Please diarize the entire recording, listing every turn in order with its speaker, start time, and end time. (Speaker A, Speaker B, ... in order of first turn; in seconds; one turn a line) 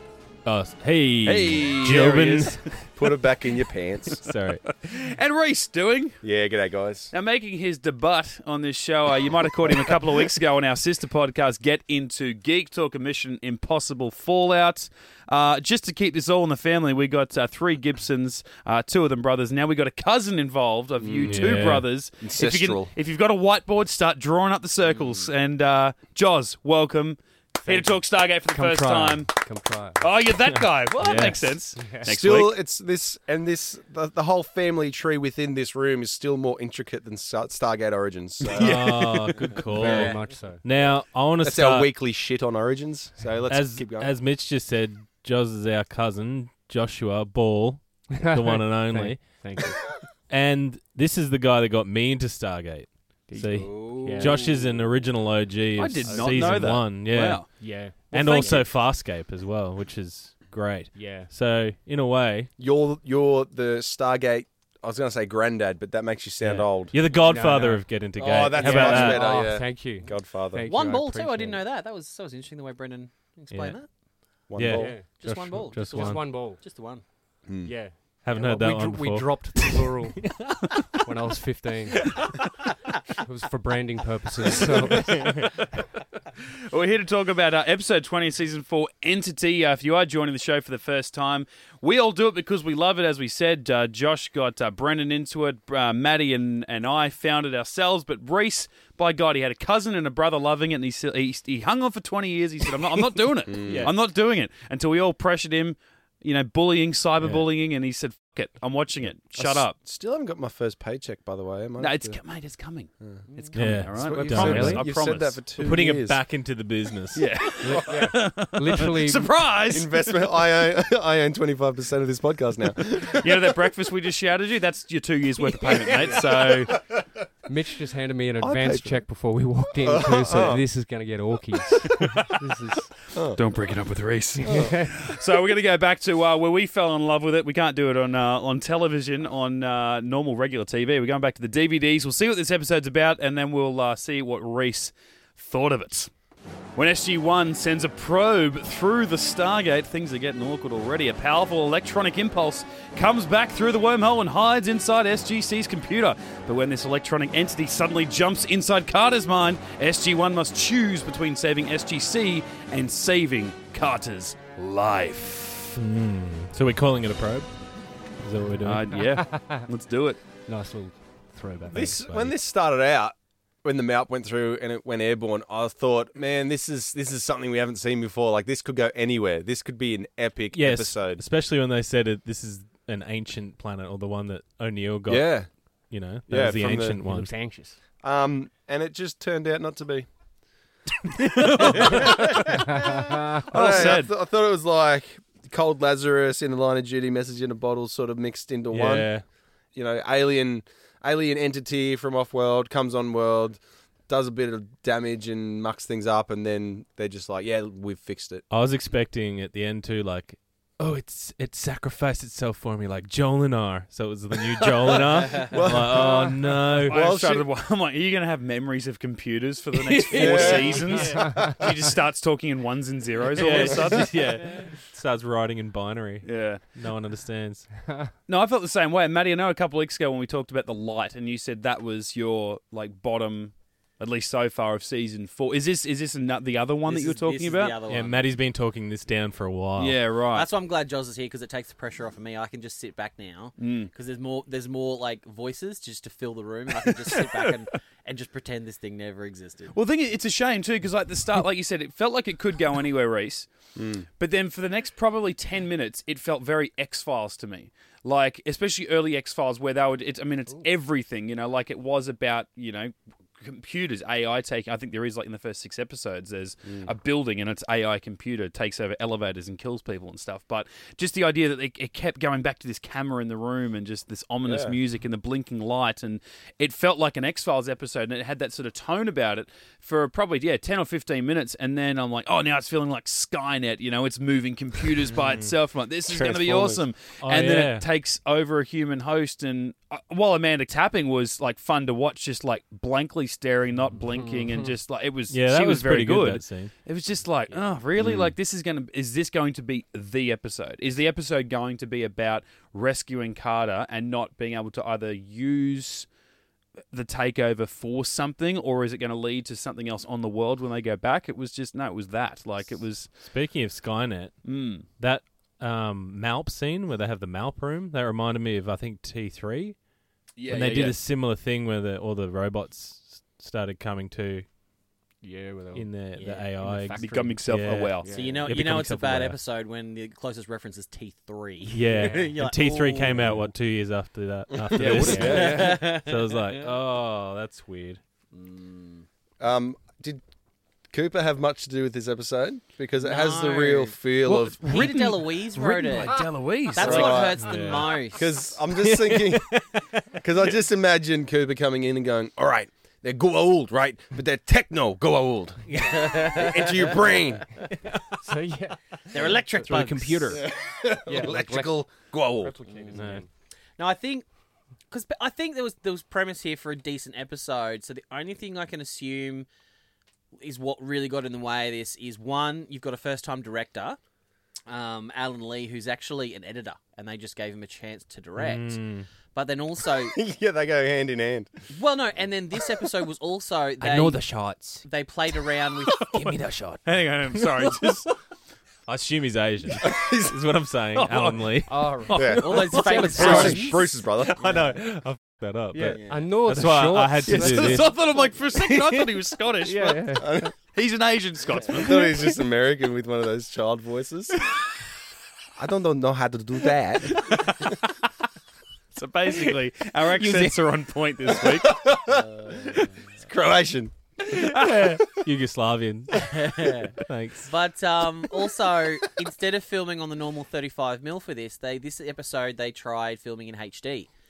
Speaker A: 0.4-2.8
Speaker B: 1.2-2.5
Speaker C: 3.0-4.2
Speaker A: 4.2-4.7
Speaker B: 4.8-6.2
Speaker C: 6.2-7.1
Speaker B: 7.1-29.3
Speaker C: 21.0-22.9
Speaker A: 21.3-21.9
Speaker D: 24.9-25.3
Speaker E: 27.6-30.1
Speaker B: 30.0-32.6
Speaker A: 31.0-31.6
Speaker E: 31.8-32.1
Speaker C: 32.0-38.8
Speaker B: 38.5-39.5
Speaker A: 38.5-41.9
Speaker E: 39.7-40.6
Speaker C: 41.4-44.1
Speaker A: 43.5-49.4
Speaker E: 48.1-49.9
Speaker A: 50.3-62.5
Speaker E: 53.3-54.4
Speaker D: 53.5-54.8
Speaker B: 55.8-57.5
Speaker E: 56.0-56.8
Speaker E: 57.6-58.6
Speaker B: 58.1-58.6
Speaker E: 60.9-61.3
Speaker C: 62.6-67.0
Speaker A: 66.4-69.4
Speaker E: 67.3-67.8
Speaker C: 68.2-70.6
Speaker E: 68.5-71.6
Speaker D: 70.7-73.9
Speaker A: 73.5-73.8
Speaker C: 74.5-74.9
Speaker A: 74.5-76.5
Speaker E: 74.7-75.1
Speaker D: 75.1-77.0
Speaker E: 75.8-76.6
Speaker C: 77.5-77.7
Speaker E: 77.6-80.3
Speaker A: 78.2-81.0
Speaker E: 81.0-82.2
Speaker E: 83.1-85.6
Speaker B: 86.7-109.8
Speaker C: 103.5-103.9
Speaker C: 109.3-112.2
Speaker B: 111.8-115.4
Speaker D: 113.3-113.5
Speaker A: 113.5-114.8
Speaker C: 113.9-116.2
Speaker E: 114.3-114.8
Speaker A: 115.6-117.3
Speaker B: 117.1-119.9
Speaker E: 117.6-119.3
Speaker C: 119.7-123.2
Speaker B: 122.9-126.8
Speaker E: 127.5-132.9
Speaker C: 128.4-129.0
Speaker C: 129.8-130.6
Speaker C: 133.1-133.4
Speaker B: 133.3-146.1
Speaker E: 134.4-134.9
Speaker C: 134.4-134.7
Speaker B: 146.8-165.8
Speaker A: 165.8-167.5
Speaker A: 168.2-169.0
Speaker B: 168.6-170.2
Speaker E: 169.3-169.6
Speaker E: 170.4-171.9
Speaker C: 171.7-181.2
Speaker A: 171.7-172.3
Speaker A: 180.5-187.3
Speaker C: 185.1-185.5
Speaker C: 186.3-187.0
Speaker E: 187.0-187.8
Speaker C: 188.0-190.1
Speaker B: 191.2-192.4
Speaker C: 191.7-199.1
Speaker E: 192.8-193.3
Speaker B: 193.5-194.1
Speaker A: 198.7-199.2
Speaker C: 199.7-208.4
Speaker A: 208.5-217.0
Speaker D: 215.2-215.5
Speaker C: 215.5-217.4
Speaker B: 216.7-224.1
Speaker A: 219.7-221.5
Speaker C: 220.2-220.8
Speaker E: 221.0-221.6
Speaker A: 223.3-227.7
Speaker B: 226.2-226.6
Speaker B: 228.3-237.7
Speaker D: 236.8-238.4
Speaker A: 237.9-240.0
Speaker B: 239.8-240.5
Speaker D: 240.3-249.7
Speaker B: 243.6-243.9
Speaker B: 246.8-247.5
Speaker B: 249.7-253.5
Speaker C: 253.8-254.1
Speaker B: 254.2-306.1
Speaker C: 266.6-266.9
Speaker C: 274.4-274.8
Speaker C: 286.1-286.8
Speaker A: 287.2-287.9
Speaker E: 294.1-294.7
Speaker A: 295.3-296.7
Speaker E: 297.5-297.8
Speaker C: 298.0-298.3
Speaker B: 306.9-313.1
Speaker A: 313.2-314.4
Speaker B: 314.4-314.9
Speaker A: 315.0-319.8
Speaker B: 320.4-320.9
Speaker A: 320.5-324.4
Speaker E: 325.2-328.6
Speaker A: 325.7-329.4
Speaker D: 326.1-326.5
Speaker B: 327.0-328.4
Speaker D: 328.1-333.2
Speaker A: 331.7-338.0
Speaker E: 331.9-332.3
Speaker C: 334.5-335.6
Speaker E: 334.8-335.9
Speaker D: 335.2-336.7
Speaker D: 338.3-339.1
Speaker C: 339.4-340.2
Speaker C: 340.9-344.6
Speaker D: 343.0-344.0
Speaker B: 344.2-347.2
Speaker D: 344.6-348.5
Speaker C: 346.8-347.4
Speaker A: 347.1-348.2
Speaker C: 348.1-349.5
Speaker A: 348.8-349.9
Speaker C: 350.1-357.4
Speaker A: 355.7-356.4
Speaker D: 355.9-356.9
Speaker E: 358.2-359.6
Speaker D: 359.1-360.4
Speaker A: 359.6-360.4
Speaker C: 360.4-362.5
Speaker E: 361.1-361.8
Speaker E: 362.4-363.3
Speaker D: 362.7-363.1
Speaker A: 362.9-363.2
Speaker D: 363.8-364.2
Speaker D: 364.9-369.5
Speaker D: 370.4-374.0
Speaker D: 374.7-378.8
Speaker A: 378.4-379.1
Speaker D: 379.3-380.2
Speaker C: 380.1-381.5
Speaker D: 381.7-384.2
Speaker A: 383.8-384.8
Speaker D: 384.8-386.3
Speaker A: 386.1-386.8
Speaker B: 386.9-388.1
Speaker A: 388.9-392.0
Speaker C: 389.8-390.3
Speaker B: 390.9-393.3
Speaker E: 391.7-393.8
Speaker C: 392.1-392.4
Speaker D: 392.4-393.9
Speaker C: 393.1-394.4
Speaker A: 394.2-397.9
Speaker D: 394.4-394.7
Speaker E: 395.7-398.3
Speaker D: 395.8-396.4
Speaker B: 397.2-400.1
Speaker E: 399.6-400.5
Speaker C: 400.2-400.5
Speaker B: 400.7-402.3
Speaker C: 401.7-404.4
Speaker C: 405.6-407.2
Speaker B: 407.1-407.7
Speaker B: 408.9-411.9
Speaker C: 411.4-412.2
Speaker D: 412.1-413.1
Speaker C: 413.2-413.9
Speaker A: 414.3-417.5
Speaker D: 416.3-416.9
Speaker D: 417.4-424.1